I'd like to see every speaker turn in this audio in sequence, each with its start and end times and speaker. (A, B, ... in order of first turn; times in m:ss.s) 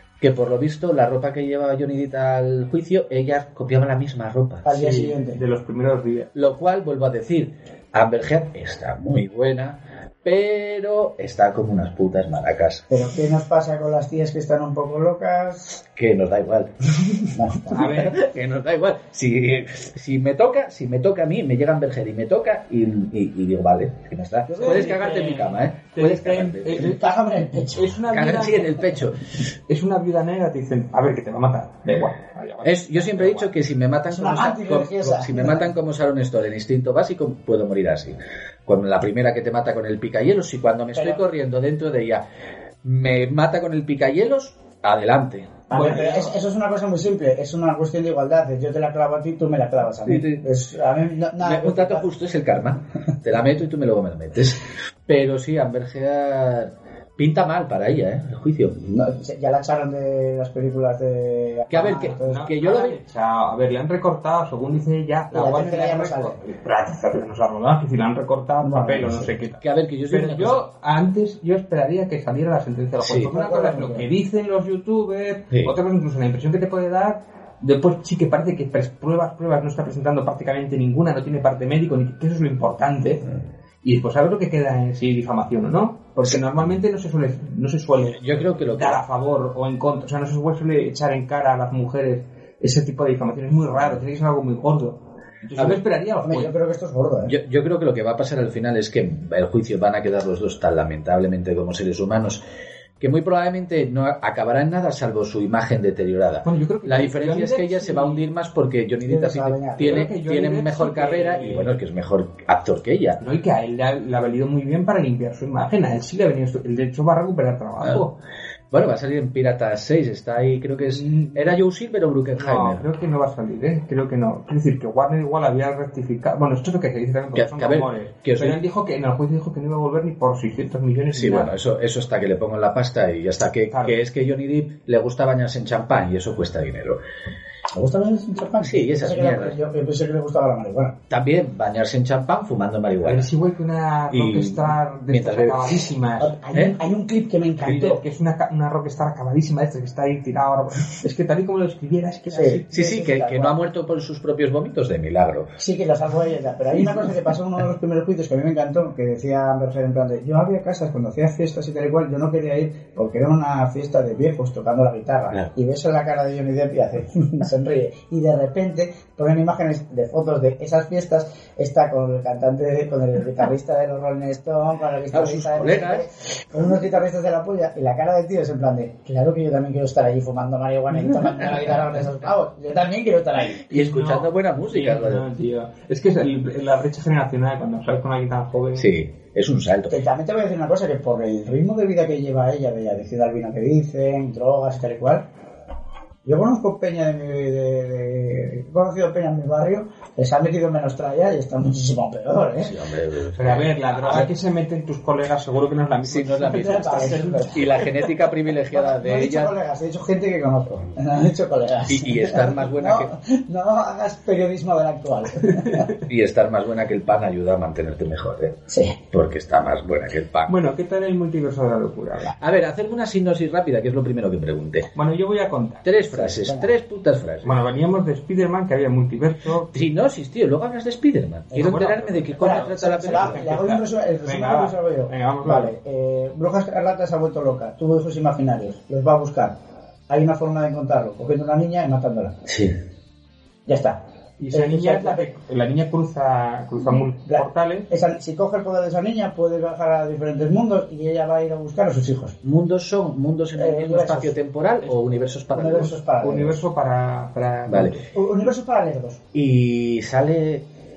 0:00.2-0:04.7 A
0:04.6-0:05.4 B
0:04.7-0:06.3 C
0:06.3-0:12.8 A
0:12.9-0:15.8 B
0:15.9-0:26.9 A
0:17.3-0:18.0 B
0:17.7-0:18.2 C
0:24.5-0:25.0 B
0:24.6-0:27.2 C
0:26.8-0:28.0 B
0:27.7-0:28.9 C
0:28.1-0:29.2 A
0:29.7-0:33.5 C
0:32.6-0:42.2 A
0:34.1-0:35.6 B
0:40.9-0:41.2 B
0:42.8-0:45.8 A
0:45.7-0:46.3 C
0:45.7-0:52.1 B
0:50.0-0:50.4 A
0:51.4-0:58.7 A
0:58.8-1:02.4 B
1:01.7-1:03.0 A
1:02.2-1:23.3 C
1:05.3-1:06.4 B
1:08.6-1:09.3 B
1:09.6-1:10.6 A
1:13.0-1:13.3 A
1:13.3-1:14.1 B
1:23.8-1:36.5 C
1:28.1-1:29.0 A
1:36.2-1:37.3 B
1:37.3-1:42.4 A
1:43.0-1:53.2 A
1:46.4-1:48.2 C
1:49.0-1:50.1 B
1:49.8-1:51.7 C
1:53.2-1:58.1 C
1:58.7-2:02.8 A
2:00.9-2:01.6 C
2:02.4-2:11.5 C
2:07.3-2:08.6 A
2:11.1-2:17.0 A
2:13.7-2:14.0 C
2:17.7-2:21.0 B
2:18.6-2:19.6 A
2:21.1-2:23.3 A
2:23.0-2:26.4 C
2:24.1-2:25.8 A
2:26.2-2:28.0 B
2:27.6-2:32.7 C
2:32.3-2:33.6 B
2:32.7-2:35.5 A
2:35.6-3:03.6 B
2:55.1-2:56.0 A
3:00.9-3:02.1 C
3:03.6-3:05.2 A
3:03.7-3:08.9 C
3:08.8-3:10.0 A
3:09.9-3:15.2 B
3:16.2-3:22.8 B
3:22.6-3:24.3 A
3:23.4-3:27.8 C
3:26.0-3:29.5 A
3:26.4-3:27.8 B
3:28.7-3:35.9 B
3:31.9-3:33.1 A
3:35.5-3:35.9 C
3:36.0-3:40.5 A
3:38.7-3:39.0 B
3:40.5-3:42.3 C
3:42.4-3:44.9 A
3:44.9-3:46.0 C
3:45.8-3:47.6 A
3:46.1-3:46.7 B
3:47.4-3:49.8 C
3:49.7-3:53.4 A
3:51.5-3:55.7 C
3:52.4-3:59.6 B
4:00.1-4:02.4 B
4:02.4-4:02.7 A
4:03.7-4:04.0 B
4:04.4-4:07.9 C
4:04.5-4:05.2 B
4:07.3-4:12.4 B
4:12.4-4:16.0 A
4:13.5-4:14.4 B
4:14.8-4:15.2 C
4:15.5-4:16.6 B
4:16.2-4:18.1 C
4:17.7-4:18.0 A
4:18.1-4:19.2 B
4:19.3-4:20.6 A